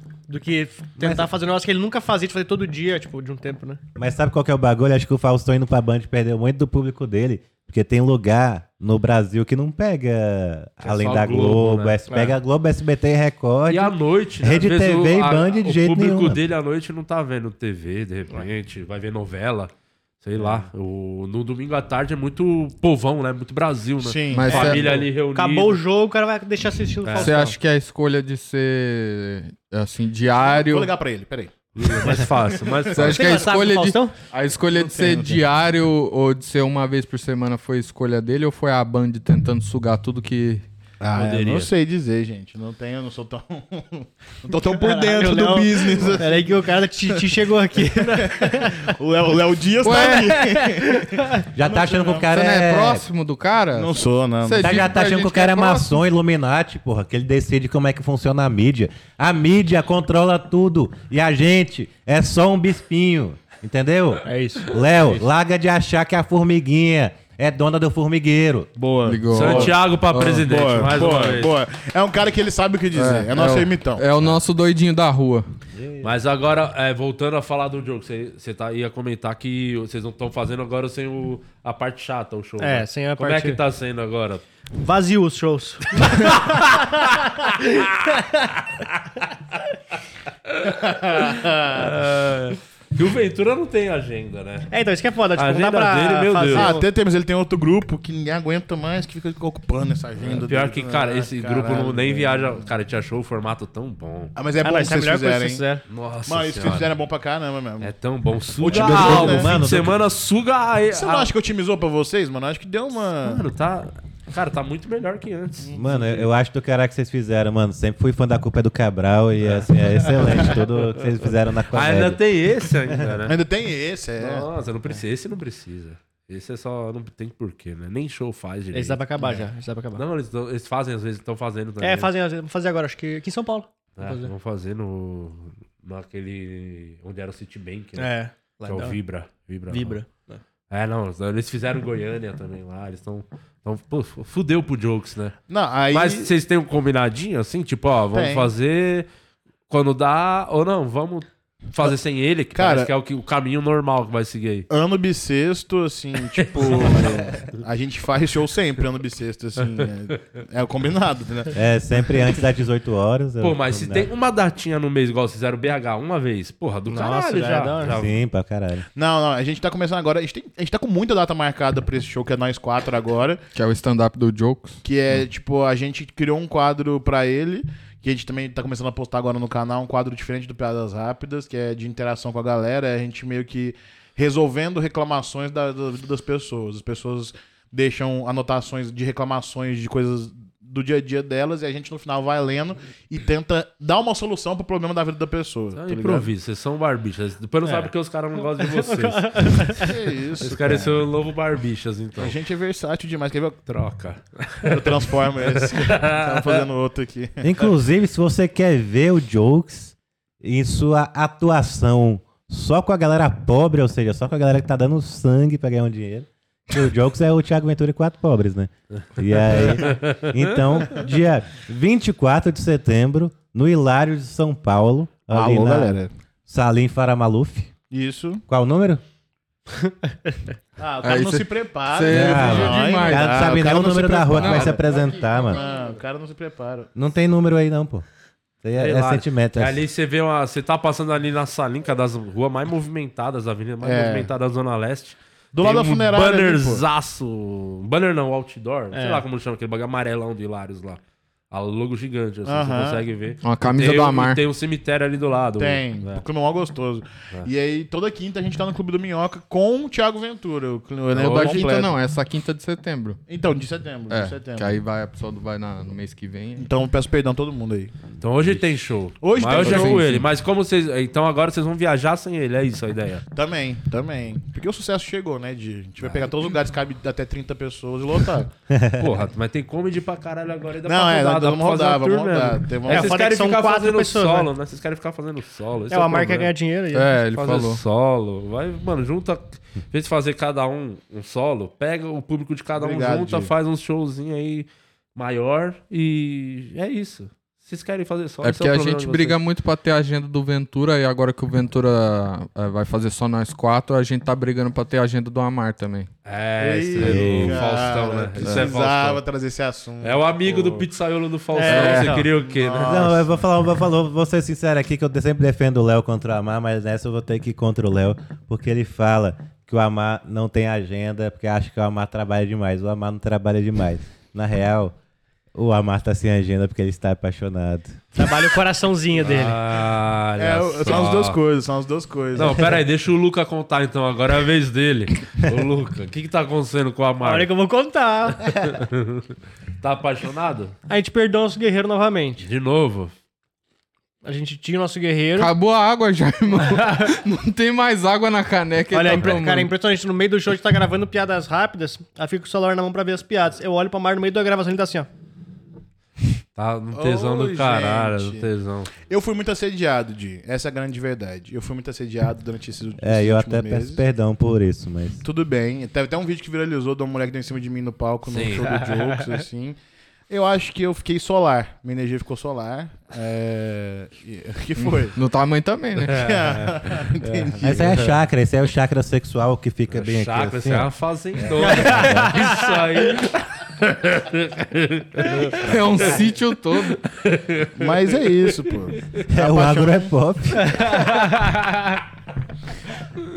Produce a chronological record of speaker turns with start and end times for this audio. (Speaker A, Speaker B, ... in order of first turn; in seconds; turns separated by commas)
Speaker A: 0.3-3.8, Speaker B: 1.0-1.2, Speaker B: 4.0-16.4, Speaker C: 10.8-12.0, Speaker A: 12.1-12.3, Speaker C: 13.7-25.8, Speaker D: 24.0-25.0, Speaker E: 24.3-25.0, Speaker A: 24.5-27.6, Speaker C: 27.0-27.3, Speaker E: 27.2-30.9, Speaker D: 30.3-33.2, Speaker C: 31.8-33.4, Speaker E: 32.9-40.6, Speaker A: 33.0-34.1, Speaker D: 34.8-35.4, Speaker D: 41.0-46.6, Speaker C: 41.1-41.7, Speaker A: 44.8-48.9, Speaker D: 48.1-52.3, Speaker E: 49.8-50.4, Speaker A: 50.0-51.4, Speaker B: 51.5-53.0, Speaker E: 52.3-56.0, Speaker D: 53.7-54.9, Speaker B: 54.6-68.7, Speaker A: 64.2-65.2, Speaker D: 68.8-74.1, Speaker E: 69.0-70.4, Speaker C: 69.3-71.6, Speaker E: 72.9-75.4, Speaker B: 75.8-76.1, Speaker C: 76.0-84.4, Speaker A: 82.6-83.6, Speaker A: 84.8-88.5, Speaker C: 86.1-87.9, Speaker C: 90.5-94.7, Speaker D: 90.7-92.0, Speaker A: 94.7-96.8, Speaker C: 95.3-96.7, Speaker D: 96.5-102.7, Speaker C: 100.2-104.3, Speaker D: 104.3-105.6, Speaker A: 104.6-105.8, Speaker C: 105.9-106.9, Speaker D: 106.2-107.9, Speaker C: 107.8-111.3, Speaker D: 108.6-109.5, Speaker B: 108.7-110.0, Speaker D: 110.9-113.4, Speaker C: 113.2-116.2, Speaker D: 115.6-115.9, Speaker B: 115.7-122.2, Speaker C: 121.7-123.3, Speaker B: 122.8-123.1, Speaker D: 123.2-124.5, Speaker C: 124.2-129.0, Speaker A: 128.7-130.0, Speaker D: 129.2-129.4, Speaker C: 129.9-132.1, Speaker A: 131.8-134.3, Speaker C: 134.0-138.1, Speaker A: 137.9-139.0, Speaker C: 138.7-140.0, Speaker A: 139.7-140.4, Speaker C: 140.7-145.4, Speaker D: 145.5-146.3, Speaker C: 145.9-149.1, Speaker D: 148.1-148.5, Speaker C: 149.7-154.7, Speaker D: 152.5-152.9, Speaker D: 154.7-161.6, Speaker C: 156.4-157.4, Speaker B: 161.5-164.1, Speaker C: 163.4-168.1, Speaker A: 166.9-167.9, Speaker B: 167.8-168.8, Speaker D: 168.9-173.4, Speaker E: 173.5-174.8, Speaker D: 174.8-196.3, Speaker C: 195.8-199.8, Speaker A: 198.6-199.9, Speaker D: 199.8-201.0, Speaker C: 200.4-202.3, Speaker D: 202.2-203.6, Speaker C: 203.7-206.6, Speaker D: 204.6-207.5, Speaker B: 207.4-227.7, Speaker C: 219.6-220.6, Speaker D: 225.3-226.1, Speaker D: 227.9-228.4, Speaker B: 228.5-229.0, Speaker D: 230.8-236.9, Speaker E: 231.0-233.7, Speaker B: 232.1-235.6, Speaker E: 234.2-234.8, Speaker B: 236.9-238.0, Speaker B: 238.6-239.8, Speaker C: 238.8-251.0, Speaker D: 243.8-244.3, Speaker D: 245.5-246.8, Speaker A: 248.9-249.2, Speaker C: 251.5-256.2, Speaker D: 252.4-253.0, Speaker E: 253.4-254.4, Speaker D: 255.6-262.0, Speaker C: 261.1-261.7, Speaker E: 261.2-263.2, Speaker D: 263.3-264.8, Speaker E: 264.1-266.7, Speaker D: 266.6-267.9, Speaker C: 268.2-273.2, Speaker D: 269.2-270.2, Speaker E: 269.6-270.0, Speaker D: 273.3-278.5, Speaker B: 278.7-279.2, Speaker C: 279.0-286.5, Speaker D: 280.8-283.2, Speaker A: 282.9-284.5, Speaker A: 285.9-287.1, Speaker E: 286.9-287.8, Speaker C: 287.3-299.4, Speaker D: 292.8-293.5, Speaker E: 298.4-306.1, Speaker C: 306.2-309.2, Speaker D: 306.6-310.8, Speaker B: 307.0-307.7, Speaker E: 308.4-308.7, Speaker C: 310.0-313.2, Speaker A: 311.5-312.3, Speaker D: 311.6-313.3, Speaker B: 312.8-324.9, Speaker B: 325.5-328.0, Speaker A: 328.1-329.6, Speaker C: 329.2-331.4, Speaker D: 330.4-332.8, Speaker C: 332.3-337.5, Speaker A: 337.2-338.6, Speaker C: 338.4-340.7, Speaker A: 340.9-342.4, Speaker C: 342.4-343.1, Speaker A: 344.2-345.5, Speaker E: 345.4-349.7, Speaker A: 346.7-347.1, Speaker A: 348.9-355.1, Speaker C: 356.6-358.9, Speaker D: 356.9-358.5, Speaker D: 359.0-364.0, Speaker B: 363.0-365.2, Speaker D: 365.2-369.8, Speaker C: 368.3-368.8, Speaker D: 370.3-375.1, Speaker E: 374.8-376.2, Speaker C: 376.0-378.0, Speaker D: 376.1-378.1, Speaker B: 377.6-382.4, Speaker C: 379.9-386.2, Speaker A: 381.6-382.8, Speaker E: 385.5-387.0, Speaker C: 386.8-389.2, Speaker D: 387.8-390.1, Speaker B: 389.3-390.9, Speaker A: 390.6-392.0